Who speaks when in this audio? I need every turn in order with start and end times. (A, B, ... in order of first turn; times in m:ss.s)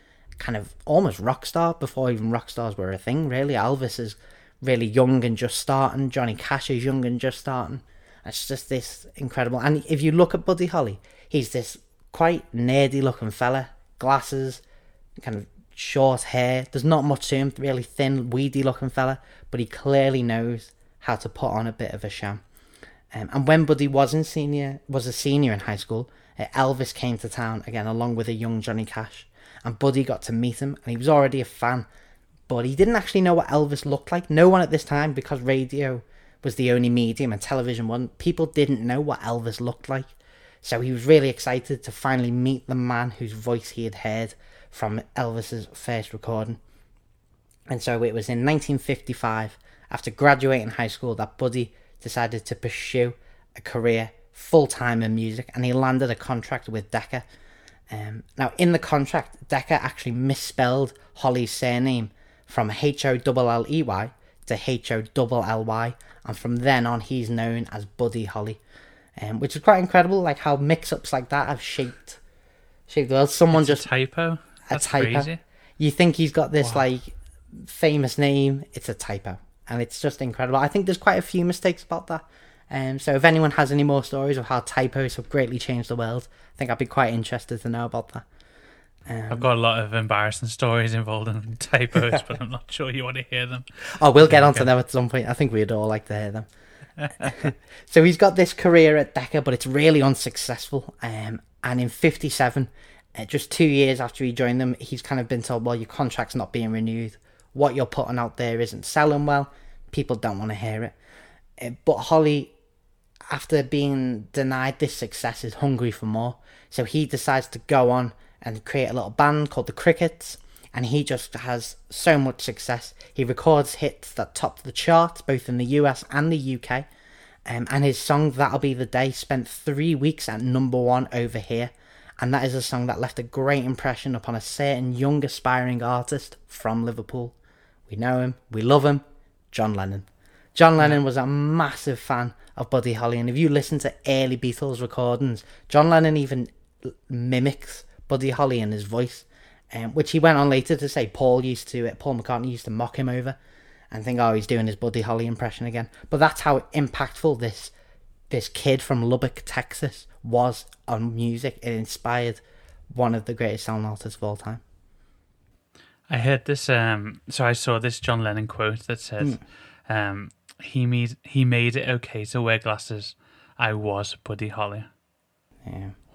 0:00.4-0:14.6 A
0:15.2-0:22.4 A
0:23.1-0:31.9 A
0:32.5-0:40.1 A
0:40.6-0:46.6 A
0:47.7-0:57.2 A
0:57.9-1:08.6 A
1:09.2-1:12.2 A
1:12.9-1:13.8 A
1:13.5-1:15.4 B
1:14.7-1:28.2 A
1:29.1-1:29.5 A
1:29.3-1:33.7 B
1:34.0-1:36.5 A
1:34.2-1:34.7 B
1:37.0-1:37.3 B
1:37.2-1:50.9 A
1:51.6-1:52.5 A
1:53.3-2:06.9 A
2:07.4-2:17.4 A
2:17.9-2:33.4 A
2:33.9-2:37.7 A
2:38.3-2:44.6 A
2:46.1-2:54.9 B
2:55.6-2:56.0 A